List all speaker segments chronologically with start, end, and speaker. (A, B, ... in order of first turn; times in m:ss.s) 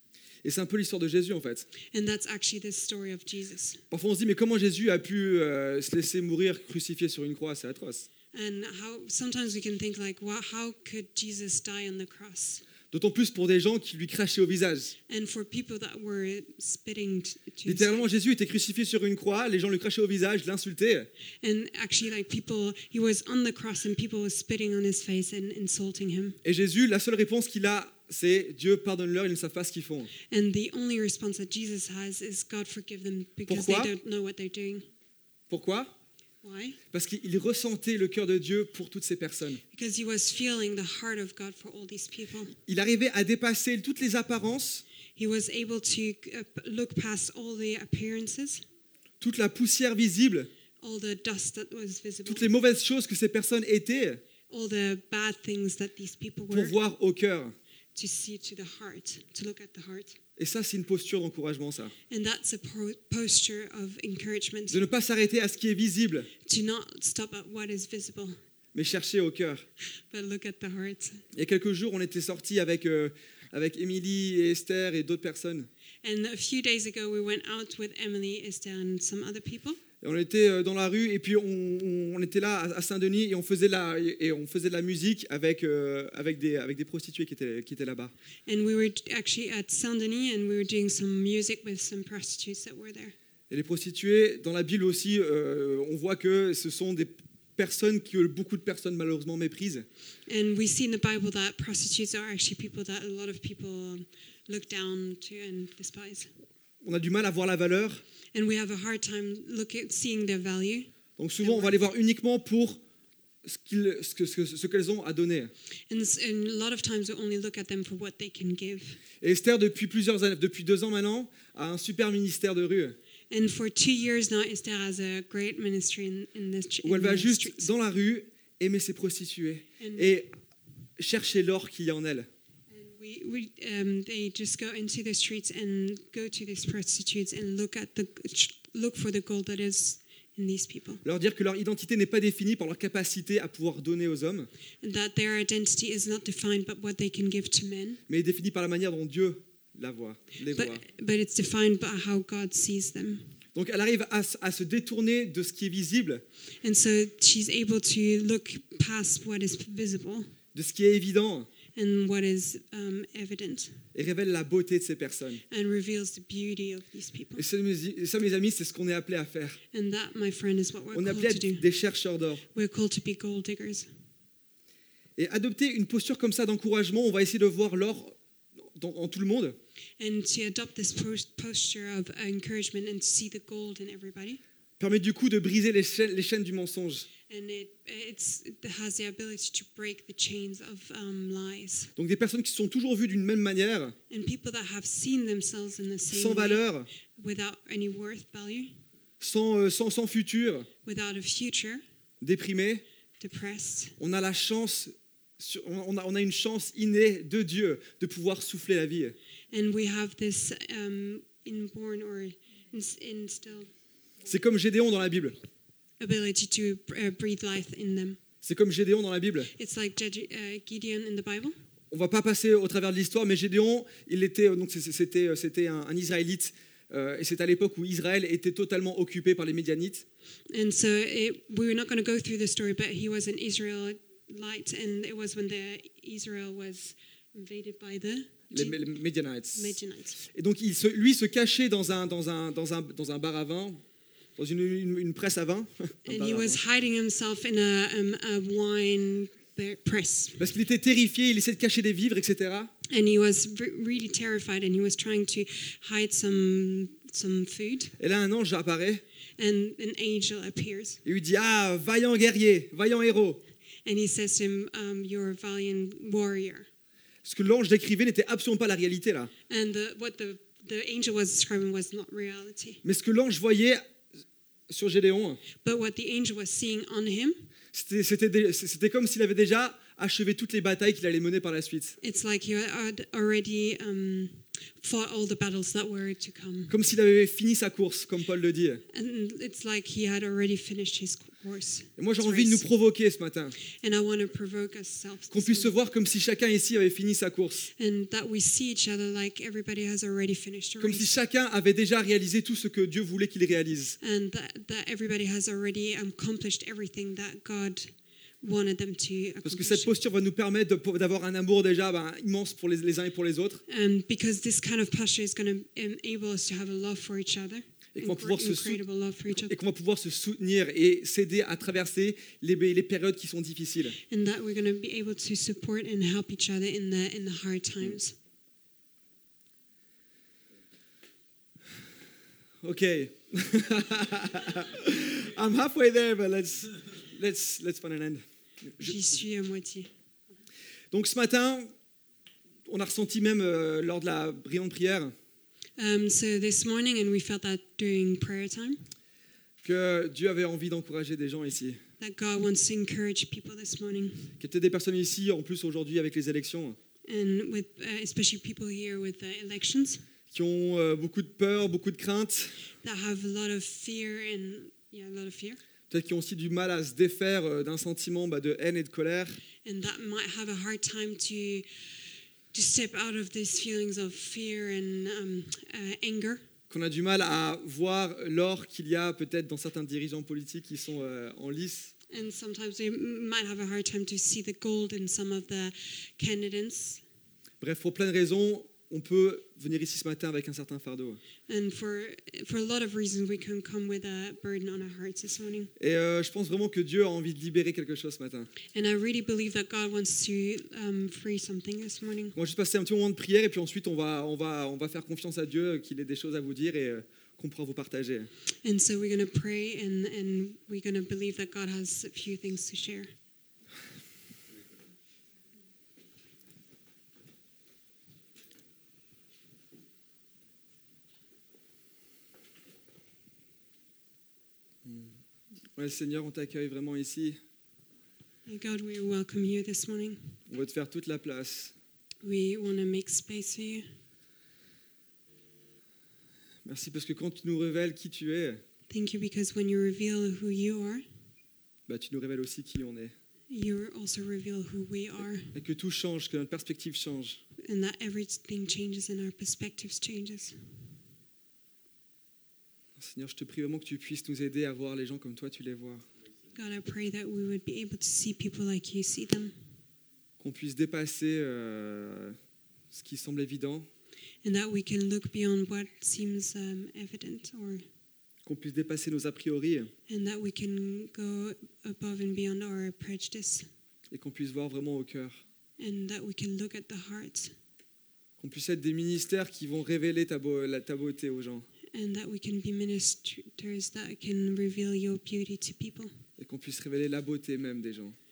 0:00.4-0:01.7 A
0:01.9-0:03.8 B
0:03.9-0:08.1 A
0:08.3-0:12.6 B
0:12.9-0:14.9 A
0:15.1-0:18.0 B
0:17.6-0:21.1 A
0:21.4-0:26.4 B
0:26.4-0:30.1 A
0:30.3-0:34.8 B
0:33.5-0:33.9 A
0:35.5-0:35.9 A
0:36.4-0:36.8 B
0:36.9-0:39.6 A
0:39.7-0:42.6 B
0:42.7-0:44.8 A
0:45.2-0:48.6 B
0:49.2-0:50.5 A
0:50.8-0:52.5 B
0:52.3-0:54.2 A
0:54.5-0:56.8 B
0:56.5-0:57.5 A
0:57.9-1:00.2 B
1:00.4-1:01.9 A
1:02.1-1:04.8 B
1:04.7-1:06.3 A
1:06.4-1:08.4 B
1:08.7-1:09.6 A
1:10.1-1:11.2 B
1:11.3-1:15.7 A
1:16.0-1:19.8 B
1:20.0-1:28.1 A
1:28.5-1:33.1 B
1:33.5-1:39.9 A
1:40.3-1:46.3 B
1:46.8-1:48.0 A
1:48.3-1:50.9 B
1:51.2-1:52.8 A
1:51.4-1:51.8 B
1:53.4-1:55.5 A
1:55.9-1:59.0 B
1:59.2-2:03.0 A
2:03.3-2:07.7 B
2:06.8-2:10.3 A
2:09.8-2:10.1 B
2:11.0-2:12.3 A
2:12.7-2:21.0 B
2:21.0-2:24.5 A
2:24.8-2:28.0 B
2:28.1-2:30.8 A
2:30.5-2:33.3 B
2:33.5-2:36.2 A
2:36.6-2:40.3 B
2:40.5-2:41.5 A
2:41.7-2:43.8 B
2:43.9-2:45.4 A
2:45.5-2:47.4 B
2:47.4-2:49.6 A
2:49.7-2:51.6 B
2:50.9-2:52.4 A
2:52.5-2:53.9 B
2:55.2-2:59.6 A
3:00.0-3:04.4 B
3:04.8-3:07.1 A
3:07.3-3:11.9 B
3:12.0-3:14.0 A
3:14.1-3:16.6 B
3:16.1-3:16.9 A
3:17.1-3:18.7 B
3:19.2-3:20.7 A
3:20.8-3:21.8 B
3:22.2-3:22.8 A
3:23.2-3:24.0 B
3:24.0-3:29.2 A
3:29.5-3:33.7 B
3:34.2-3:35.4 A
3:36.0-3:38.2 B
3:38.4-3:39.5 A
3:39.5-3:41.6 B
3:41.9-3:50.0 A
3:50.5-3:58.8 B
3:58.5-4:03.8 A
3:59.5-4:00.2 B
4:04.4-4:06.6 A
4:06.0-4:10.5 B
4:10.4-4:12.7 A
4:12.9-4:17.9 B
4:18.0-4:19.0 A
4:19.4-4:21.0 B
4:21.0-4:23.4 A
4:23.8-4:26.7 B
4:27.2-4:29.3 A
4:29.5-4:32.8 B
4:32.8-4:33.8 A
4:34.7-4:35.4 A
4:35.6-4:37.5 B
4:37.7-4:42.0 A
4:42.0-4:46.8 B
4:46.7-4:48.8 A
4:48.9-4:52.6 B
4:52.0-4:53.6 A
4:53.7-4:55.7 B
4:55.3-4:57.7 A
4:57.8-5:01.1 B
5:00.8-5:04.0 A
5:04.0-5:09.9 B
5:09.4-5:13.6 A
5:13.7-5:19.6 B
5:17.9-5:18.8 A
5:19.3-5:24.0 A
5:24.1-5:28.2 B
5:32.6-5:39.0 A
5:38.8-5:39.9 B
5:40.9-5:41.7 A
5:42.7-5:45.1 A
5:45.8-5:48.8 B
5:49.6-5:51.8 A
5:52.0-5:54.3 B
5:54.4-5:56.8 A
5:57.1-6:00.0 B
6:00.3-6:02.6 A
6:02.8-6:05.6 B
6:05.9-6:09.4 A
6:09.6-6:11.7 B
6:12.5-6:16.4 B
6:16.7-6:21.9 A
6:22.1-6:27.0 B
6:27.6-6:31.2 A
6:31.5-6:35.7 B
6:35.8-6:38.5 A
6:38.7-6:42.3 B
6:42.3-6:48.3 A
6:48.6-6:53.1 B
7:04.8-7:05.2 A
7:05.7-7:07.4 A
7:08.4-7:10.4 B
7:10.5-7:11.7 A
7:12.2-7:13.8 B
7:16.6-7:18.6 A
7:18.9-7:21.0 B
7:21.9-7:23.1 A
7:23.5-7:25.5 B
7:25.5-7:27.4 A
7:27.6-7:30.6 B
7:33.0-7:36.0 A
7:36.5-7:39.5 B
7:40.4-7:42.4 A
7:42.9-7:43.9 A
7:44.4-7:47.8 B
7:48.4-7:49.9 A
7:50.1-7:53.7 B
7:54.1-7:55.4 A
7:55.8-7:57.5 B
7:58.4-8:01.7 A
8:01.9-8:06.1 B
8:06.4-8:08.2 A